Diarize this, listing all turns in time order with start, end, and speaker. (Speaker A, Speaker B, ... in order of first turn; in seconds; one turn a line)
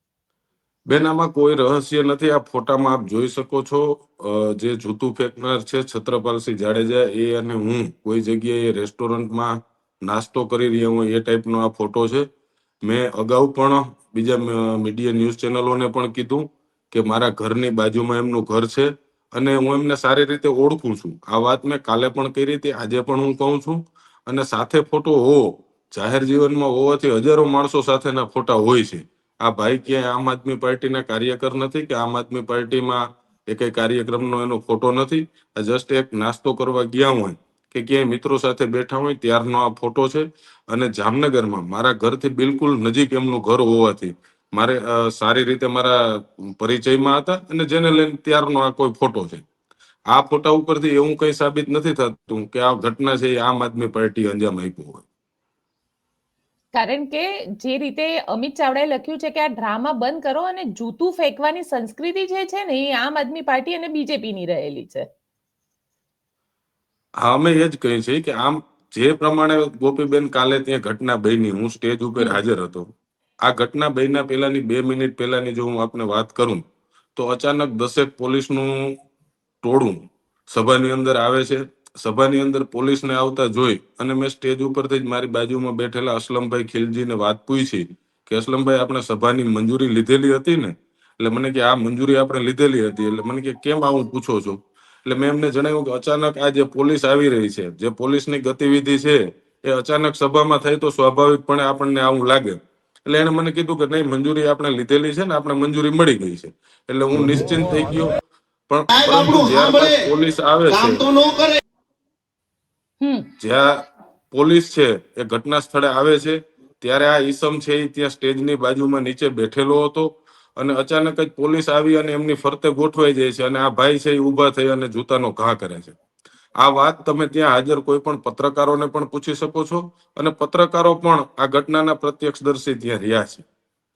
Speaker A: 0.9-12.3
Speaker A: 12.8-49.4
Speaker A: 50.1-55.0
Speaker B: 56.7-65.1
Speaker A: 67.2-72.9
Speaker A: 73.4-76.6
Speaker A: 77.2-78.9
Speaker A: 79.6-108.1
Speaker A: 108.7-111.0
Speaker C: 108.9-110.1
Speaker C: 110.7-111.6
Speaker B: 113.0-113.3
Speaker A: 113.4-113.8
Speaker A: 114.3-126.0
Speaker A: 126.6-133.4